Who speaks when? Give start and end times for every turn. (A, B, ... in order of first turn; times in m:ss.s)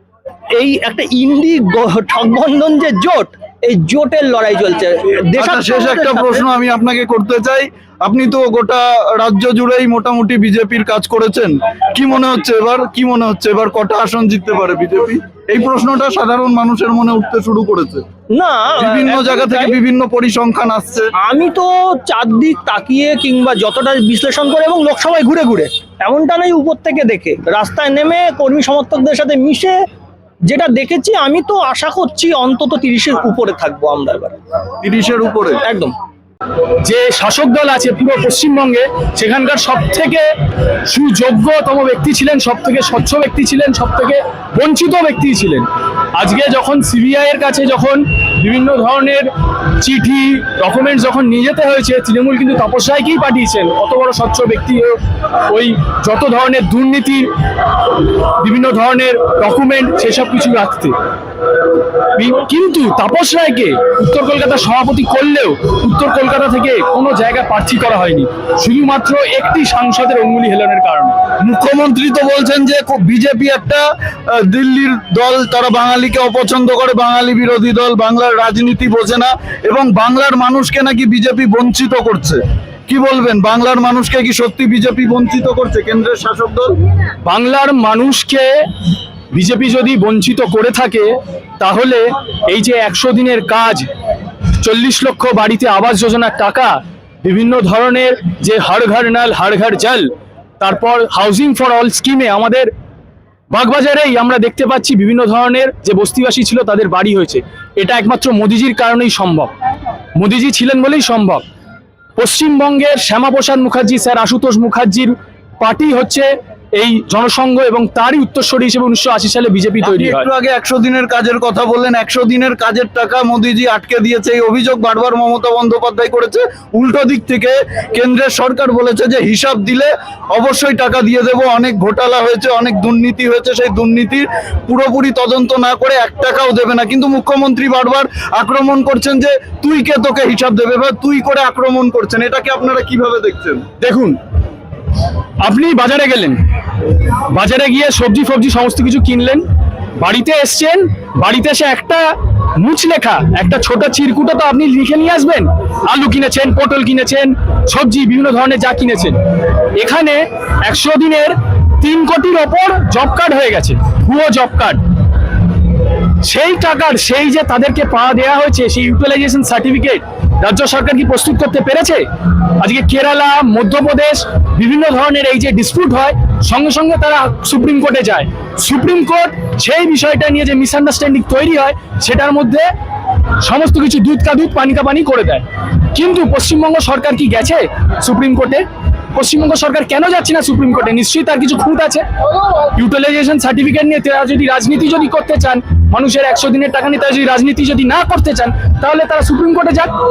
0:00.6-0:06.4 A
0:05.4-0:18.0 B
0:18.4-0:19.8 A
0:18.8-0:21.1 B
0:21.2-0:29.7 A
0:30.5-0:34.4 A
0:34.8-0:35.6 B
0:35.6-0:35.9 A
0:36.8-0:40.2 C
0:40.9-0:49.3 C
0:49.8-0:55.0 C
0:55.5-0:57.3 C
0:58.4-1:00.9 C
1:02.2-1:11.2 C
1:11.4-1:26.7 B
1:27.2-1:28.5 C
1:29.3-1:31.1 C
1:31.6-1:33.8 C
1:34.6-1:40.1 C
1:40.6-1:42.7 C
1:43.5-1:49.5 C
1:50.2-1:51.4 C
1:52.2-2:00.3 C
1:59.8-2:23.6 B
2:23.8-2:24.2 C
2:25.4-2:26.4 C
2:27.3-2:29.4 C
2:30.0-2:32.1 C
2:32.6-2:39.2 C
2:39.8-2:44.8 C
2:46.2-2:52.0 C
2:52.6-3:02.6 C
3:03.4-3:05.4 C
3:05.9-3:08.6 C
3:09.2-3:12.0 C
3:12.8-3:19.9 C